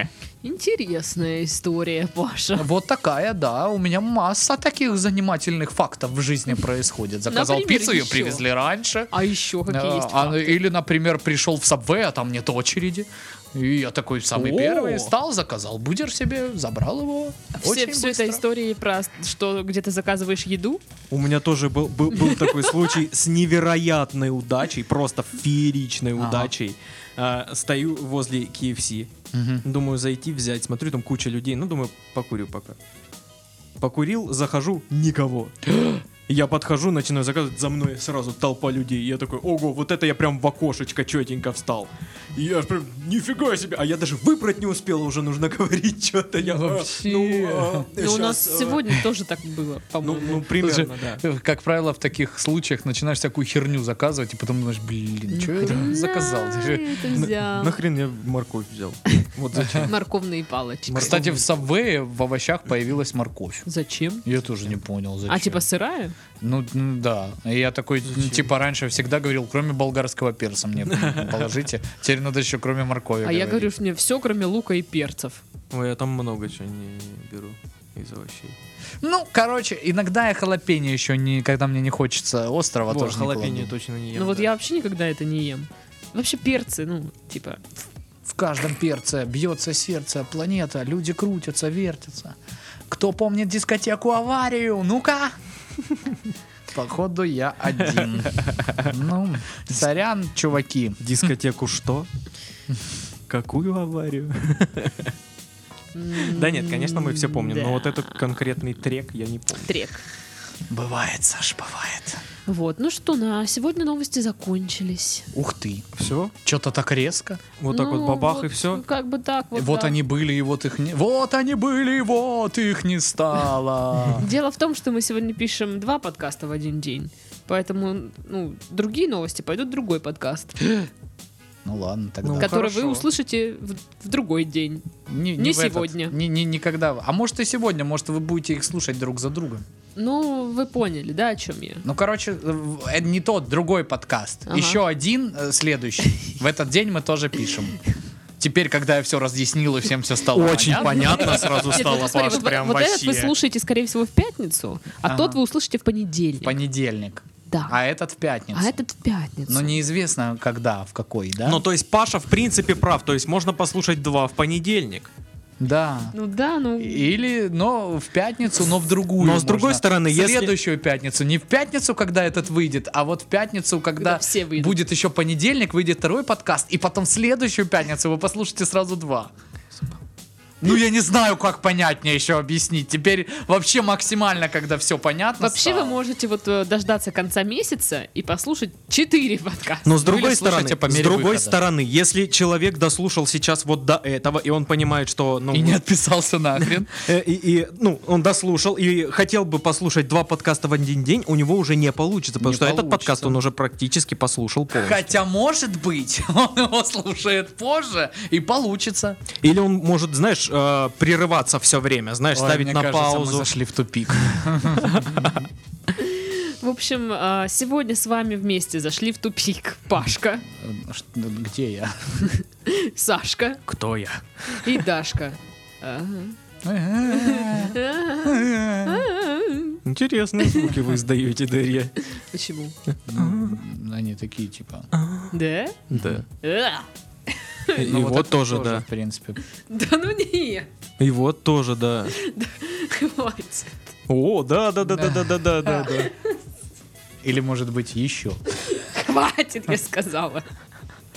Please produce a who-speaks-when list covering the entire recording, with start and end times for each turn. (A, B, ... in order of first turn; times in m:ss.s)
0:00.4-0:02.7 A
0:02.6-0:09.1 B
0:07.3-0:08.4 A
0:09.1-0:10.6 A
0:09.7-0:18.4 B
0:14.3-0:15.1 C
0:17.6-0:20.8 A
0:21.1-0:29.1 C
0:22.3-0:22.6 A
0:26.2-0:26.5 B
0:29.3-0:29.6 B
0:29.6-0:32.8 C
0:33.8-0:49.0 C
0:46.4-0:47.9 B
0:47.9-0:50.4 A
0:50.0-0:51.2 C
0:50.6-0:57.0 B
0:55.3-0:57.8 A
0:57.1-1:00.0 C
0:59.5-0:59.9 B
0:59.9-1:01.2 A
1:00.9-1:01.5 C
1:01.0-1:03.6 B
1:03.7-1:04.2 A
1:04.2-1:05.6 B
1:05.3-1:06.2 A
1:06.4-1:13.7 B
1:08.1-1:08.4 C
1:10.9-1:11.5 C
1:13.2-1:15.4 A
1:15.7-1:18.6 C
1:19.0-1:23.7 B
1:22.9-1:24.5 C
1:24.2-1:27.6 A
1:28.3-1:32.4 B
1:32.9-1:35.4 B
1:36.7-1:41.0 B
1:38.0-1:38.9 C
1:41.0-1:42.1 C
1:43.3-1:45.1 C
1:45.9-1:48.2 A
1:46.2-1:49.7 C
1:49.7-1:50.0 A
1:50.7-1:52.2 B
1:52.5-1:55.3 A
1:55.3-1:55.9 B
1:56.0-1:56.3 C
1:56.4-1:57.4 B
1:57.6-1:58.8 C
1:57.7-2:00.0 A
1:59.6-2:04.3 B
2:04.2-2:10.6 A
2:10.6-2:10.9 B
2:11.6-2:12.7 B
2:12.2-2:13.0 C
2:12.4-2:14.9 A
2:15.1-2:19.7 B
2:15.4-2:16.2 A
2:20.0-2:21.8 A
2:21.8-2:27.8 B
2:24.5-2:24.8 A
2:28.4-2:31.8 B
2:30.3-2:33.3 C
2:30.7-2:36.6 A
2:35.1-2:35.4 B
2:36.4-2:38.8 B
2:37.5-2:37.8 A
2:38.5-2:39.8 A
2:39.5-2:41.6 B
2:41.4-2:45.1 C
2:45.6-2:46.1 B
2:46.1-2:47.1 A
2:46.8-2:59.3 B
2:49.2-2:50.5 C
2:54.0-2:54.8 A
3:00.6-3:06.0 B
3:05.4-3:09.9 A
3:09.8-3:15.8 C
3:10.0-3:11.6 B
3:15.5-3:16.9 B
3:16.9-3:25.1 C
3:22.4-3:23.4 B
3:24.8-3:29.2 B
3:29.4-3:33.5 C
3:32.3-3:35.5 B
3:34.8-3:35.4 C
3:35.9-3:40.4 A
3:40.5-3:42.3 B
3:42.3-3:43.6 A
3:43.7-3:44.2 B
3:44.5-3:46.4 A
3:46.6-3:49.1 B
3:47.1-3:49.8 A
3:49.8-3:51.9 C
3:50.4-3:50.8 A
3:52.1-3:52.8 A
3:52.9-3:53.6 C
3:53.1-3:54.9 B
3:54.9-3:55.3 C
3:55.3-3:55.8 A
3:55.9-3:56.2 C
3:55.9-3:56.2 B
3:56.4-3:57.9 A
3:57.8-3:58.8 C
3:57.8-3:59.4 B
3:59.6-4:00.7 A
4:01.0-4:02.2 C
4:02.1-4:03.9 A
4:04.1-4:06.1 C
4:04.8-4:05.4 B
4:05.7-4:06.4 A
4:07.2-4:08.4 B
4:08.6-4:10.4 A